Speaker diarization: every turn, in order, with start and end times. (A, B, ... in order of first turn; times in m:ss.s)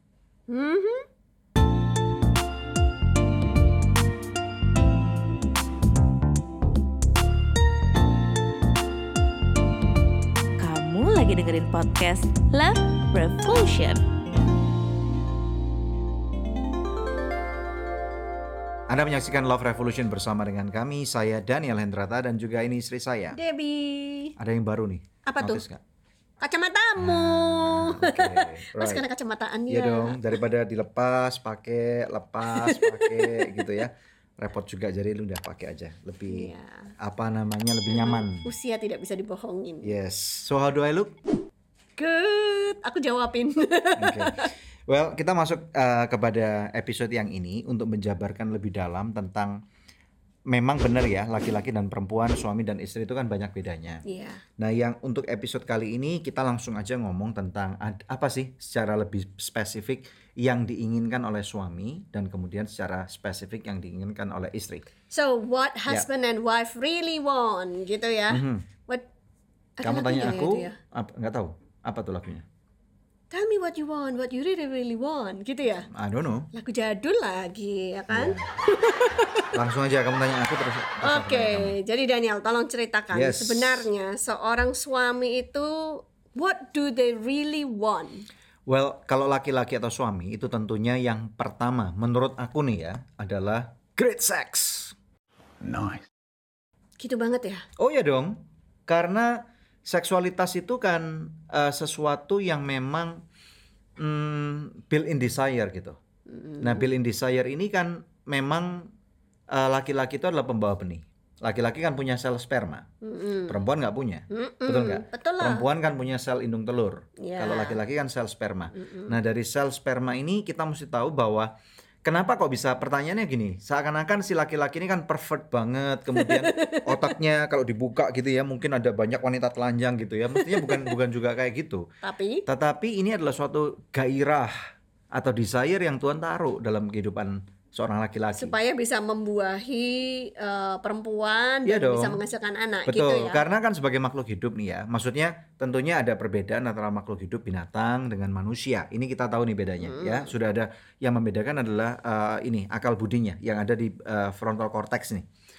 0:00.5-0:01.0 A
0:10.6-0:14.0 B
0:18.9-0:23.4 C
0:23.3-0:24.4 A
0:24.4-0:25.8 C
0:25.2-0:25.6 A
0:26.4-0:30.4 A
0:27.0-0:29.0 C
0:29.7-0:38.5 C
0:32.5-0:33.8 A
0:36.3-0:36.9 A
0:37.9-0:39.9 A
0:39.8-0:41.1 C
0:42.0-0:44.5 A
0:44.0-0:49.6 C
0:50.5-0:54.0 C
0:54.0-0:54.4 A
0:54.6-1:04.9 C
1:05.1-1:09.0 A
1:08.3-1:08.7 C
1:09.8-1:10.8 A
1:09.8-1:12.4 C
1:13.3-1:15.9 A
1:15.9-1:16.5 C
1:16.5-1:19.5 A
1:18.1-1:18.5 C
1:19.5-1:21.8 C
1:21.0-1:28.2 A
1:23.1-1:23.9 C
1:28.7-1:34.9 C
1:35.6-1:36.0 C
1:37.0-1:37.6 A
1:37.8-1:43.2 C
1:44.0-1:46.0 C
1:46.3-1:46.9 A
1:46.6-1:48.9 C
1:49.5-1:52.9 C
1:53.0-1:53.6 A
1:53.5-2:01.5 C
1:54.3-1:55.6 A
1:57.2-1:57.8 A
1:58.7-1:59.1 A
2:02.0-2:11.8 C
2:06.2-2:07.1 A
2:10.4-2:10.9 A
2:12.0-2:12.4 A
2:12.4-2:14.6 C
2:15.1-2:18.5 C
2:18.4-2:23.4 A
2:21.6-2:22.2 C
2:22.8-2:35.2 C
2:29.8-2:30.3 A